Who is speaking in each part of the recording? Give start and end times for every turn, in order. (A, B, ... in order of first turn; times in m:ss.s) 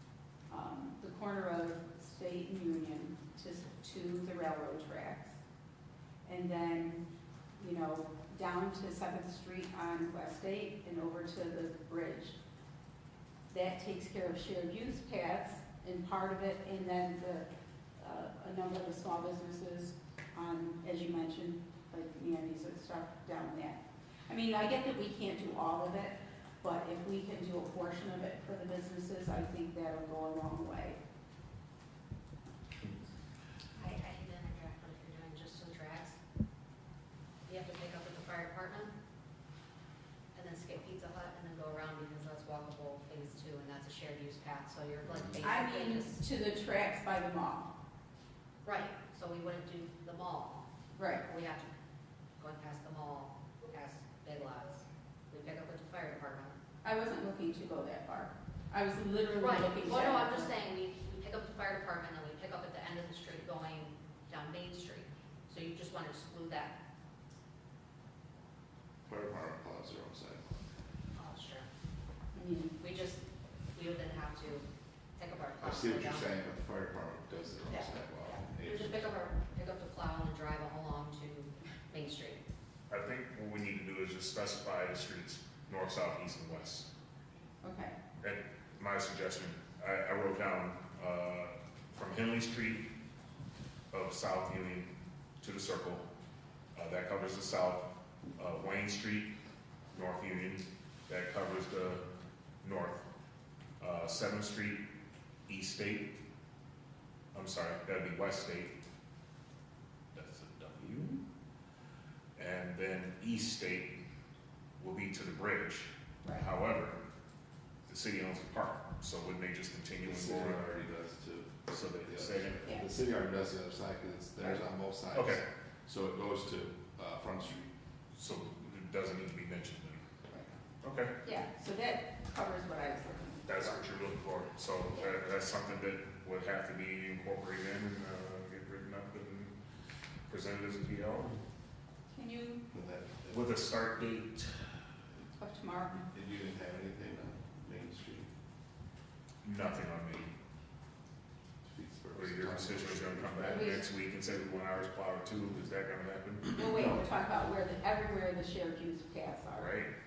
0:00.5-0:05.4 A
0:06.2-0:07.0 A
0:07.6-0:12.4 A
0:13.5-0:17.4 A
0:18.0-0:31.0 A
0:33.8-0:36.2 B
0:37.5-0:38.9 B
0:40.3-0:46.2 B
0:45.4-0:47.7 A
0:48.6-0:50.7 B
0:50.9-0:51.2 A
0:51.2-0:51.7 B
0:52.4-0:56.6 B
0:56.8-1:00.5 A
0:59.4-1:06.7 B
1:09.1-1:10.5 C
1:11.2-1:11.7 B
1:12.3-1:12.8 A
1:12.8-1:13.2 B
1:13.7-1:16.2 B
1:15.6-1:19.2 C
1:17.7-1:22.4 B
1:22.9-1:26.9 D
1:27.6-1:27.9 A
1:28.2-1:32.9 D
1:33.9-1:36.1 D
1:36.7-1:39.3 D
1:39.9-1:42.0 D
1:42.6-1:43.1 D
1:43.8-1:44.8 D
1:45.5-1:46.2 D
1:47.3-1:48.8 D
1:50.1-1:51.2 D
1:52.4-1:54.0 D
1:54.8-1:57.0 D
1:56.2-1:56.5 A
1:57.9-2:00.8 D
2:00.0-2:07.7 C
2:01.7-2:02.9 D
2:05.1-2:05.4 D
2:08.1-2:10.0 D
2:10.8-2:11.1 D
2:11.2-2:13.8 A
2:13.5-2:19.5 D
2:20.3-2:21.4 D
2:22.1-2:22.6 A
2:22.7-2:23.5 C
2:23.3-2:24.7 D
2:25.2-2:26.0 A
2:26.1-2:28.3 C
2:29.4-2:30.3 D
2:31.6-2:33.8 C
2:32.1-2:36.6 D
2:33.5-2:33.8 A
2:36.6-2:39.8 A
2:36.7-2:37.1 C
2:39.6-2:39.9 D